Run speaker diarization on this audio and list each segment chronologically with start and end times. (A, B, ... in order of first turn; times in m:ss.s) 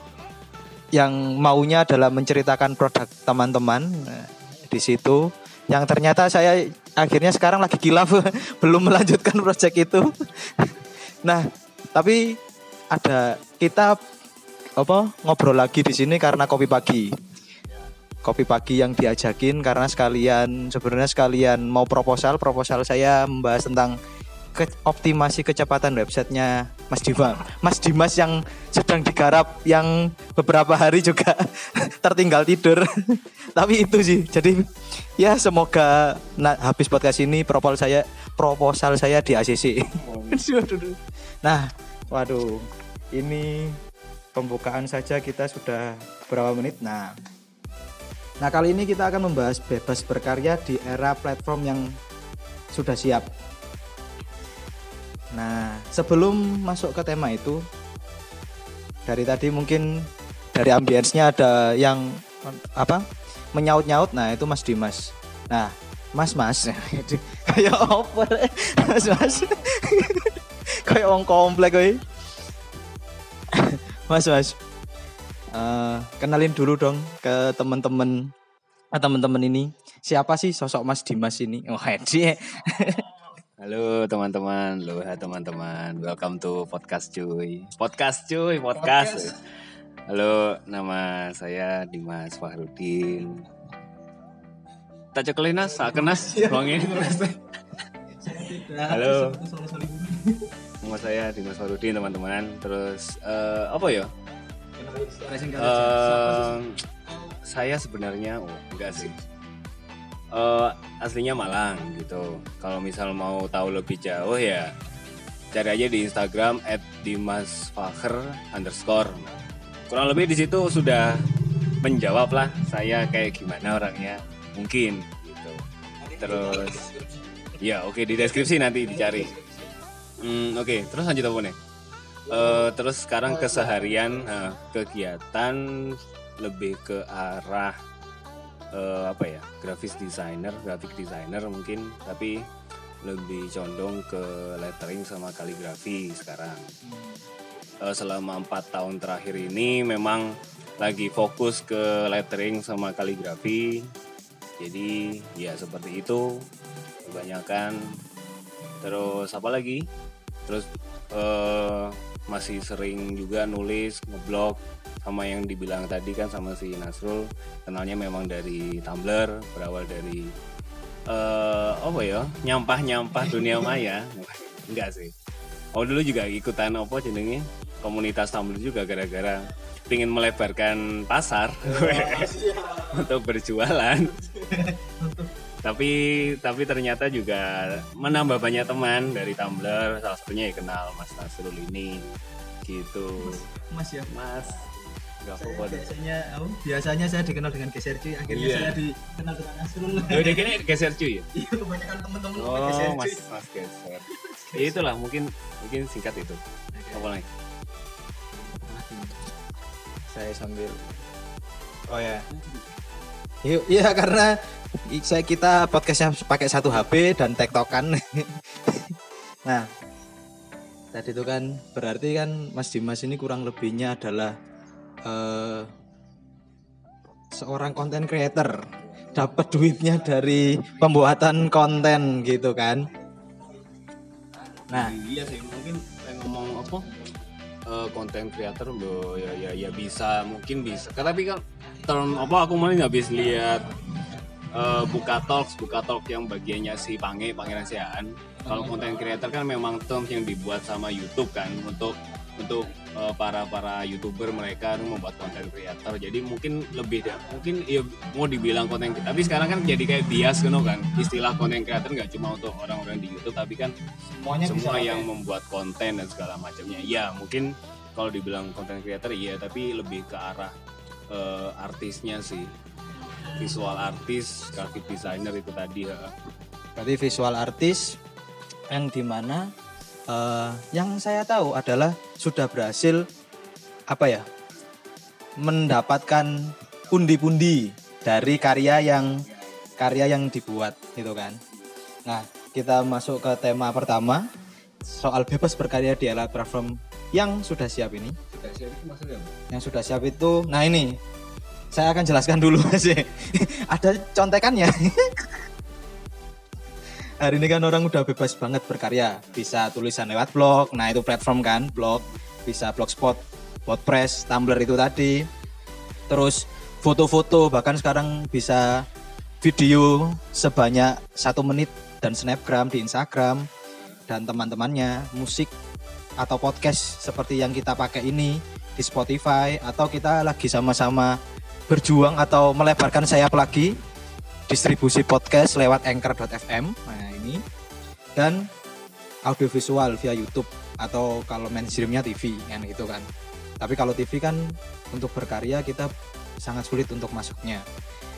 0:00.9-0:12.4 A
0:12.9-0:14.0 A
0:14.8-0:17.2 A
0:18.2-0:24.0 A
0:24.5-0:43.8 A
0:40.0-0:40.4 B
0:44.3-0:47.2 A
0:48.4-0:51.9 A
0:52.7-0:53.3 A
0:55.3-0:57.6 A
0:59.0-1:12.0 A
1:13.5-1:14.6 A
1:15.5-1:18.3 A
1:18.9-1:23.1 A
1:23.6-1:29.5 B
1:28.8-1:29.3 A
1:30.1-1:33.4 B
1:35.1-1:37.5 B
1:35.8-1:37.2 A
1:38.2-1:40.5 A
1:38.8-1:39.4 B
1:40.8-1:44.1 B
1:44.8-1:46.6 A
1:45.6-1:46.8 B
1:47.4-1:49.2 B
1:50.3-1:54.7 B
1:55.5-1:59.3 B
1:59.9-2:06.8 B
2:06.2-2:07.0 A
2:07.5-2:09.4 B
2:09.2-2:09.6 A
2:10.2-2:11.6 B
2:12.3-2:17.8 B
2:13.6-2:13.8 A
2:18.7-2:22.5 B
2:23.0-2:26.7 B
2:26.8-2:27.2 A
2:27.8-2:33.9 B
2:34.6-2:36.4 B
2:37.0-2:37.9 B
2:38.8-2:39.8 B
2:40.4-2:50.3 B
2:51.1-2:55.1 B
2:55.7-3:04.5 B
3:01.7-3:02.8 A
3:04.4-3:05.3 A
3:05.6-3:13.4 B
3:13.2-3:14.2 A
3:14.1-3:15.9 B
3:15.4-3:20.6 A
3:18.3-3:18.8 B
3:20.0-3:21.3 B
3:21.3-3:23.2 A
3:22.3-3:26.4 B
3:24.1-3:24.8 A
3:26.7-3:27.0 A
3:26.9-3:27.3 B
3:28.3-3:29.3 A
3:30.1-3:30.9 A
3:31.9-3:32.3 A
3:33.4-3:39.7 A
3:40.9-3:44.4 A
3:45.0-3:45.7 A
3:47.3-3:52.9 A
3:54.7-3:57.0 B
3:57.7-4:23.7 B
4:08.4-4:08.7 A
4:24.0-4:25.1 A
4:24.4-4:30.5 B
4:31.1-4:32.5 B
4:33.3-4:36.1 B
4:36.8-4:38.0 A
4:38.7-4:39.5 A
4:40.1-4:43.0 A
4:43.9-4:44.3 A
4:45.4-4:49.2 A
4:49.3-4:49.6 B
4:49.8-4:51.4 A
4:52.0-4:54.2 A
4:54.8-4:58.2 A
4:58.3-4:59.4 B
4:59.5-5:01.0 A
5:01.7-5:05.4 A
5:07.2-5:15.2 A
5:16.1-5:18.8 A
5:19.4-5:23.5 A
5:24.1-5:25.5 A
5:26.2-5:31.2 A
5:31.7-5:33.8 A
5:34.5-5:37.4 A
5:38.2-5:38.5 A
5:39.2-5:43.1 A
5:43.6-5:45.9 A
5:46.4-5:47.6 A